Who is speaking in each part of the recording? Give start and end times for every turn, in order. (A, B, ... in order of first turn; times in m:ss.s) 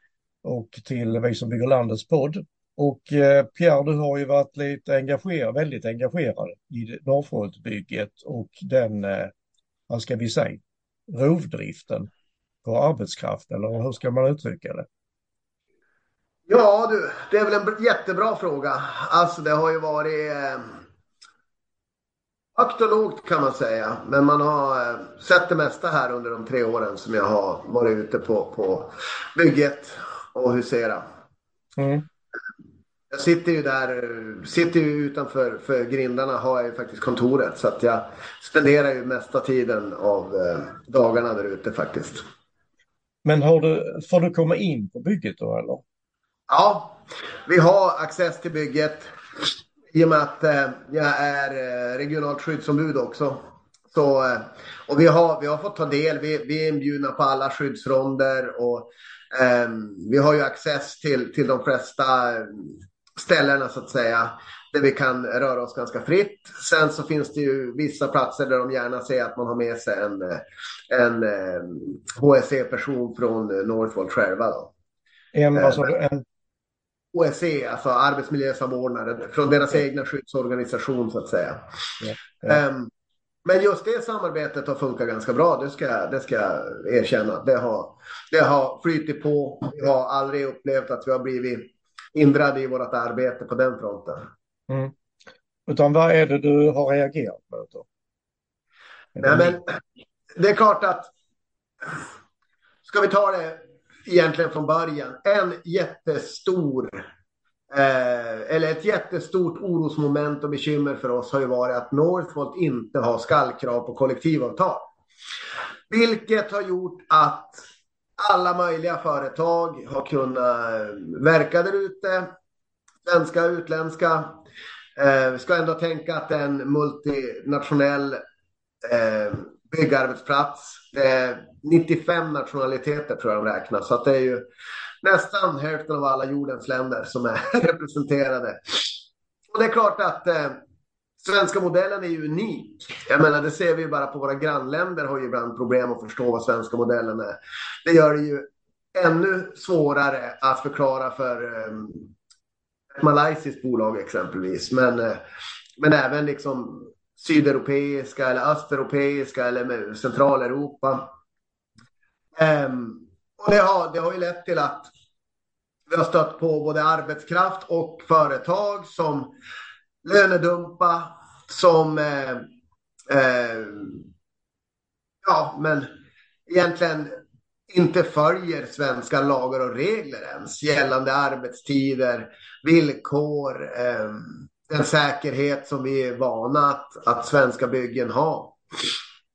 0:00.4-0:09.3 A
0:09.9-0:12.1 A
0:12.6-0:14.9 A
0:16.5-0:20.8 B
0:22.6-0:31.0 B
0:31.8-0:32.0 A
0:33.1-0:42.2 B
0:43.2-0:45.8 A
0:46.5-0:49.1 B
0:49.9-1:14.7 B
1:15.3-1:16.2 A
1:15.6-1:15.9 B
1:17.1-1:21.6 B
1:22.0-1:22.6 A
1:22.4-1:22.9 B
1:23.4-1:34.3 B
1:34.7-1:34.9 A
1:35.7-1:37.9 A
1:39.2-1:39.6 A
1:39.2-1:39.8 B
1:40.4-1:41.1 B
1:42.8-1:47.1 B
1:47.7-1:54.9 B
1:55.9-1:57.6 B
1:58.2-2:02.3 B
2:03.0-2:04.4 B
2:05.0-2:08.2 B
2:08.8-2:14.4 B
2:15.0-2:19.0 B
2:19.5-2:20.6 B
2:21.2-2:32.1 B
2:33.0-2:35.2 B
2:35.8-2:41.0 B
2:42.4-2:44.9 B
2:45.9-2:49.3 B
2:50.0-2:52.4 B
2:53.1-2:54.0 B
2:55.2-2:55.9 B
2:56.5-2:57.2 B
2:57.7-3:08.6 B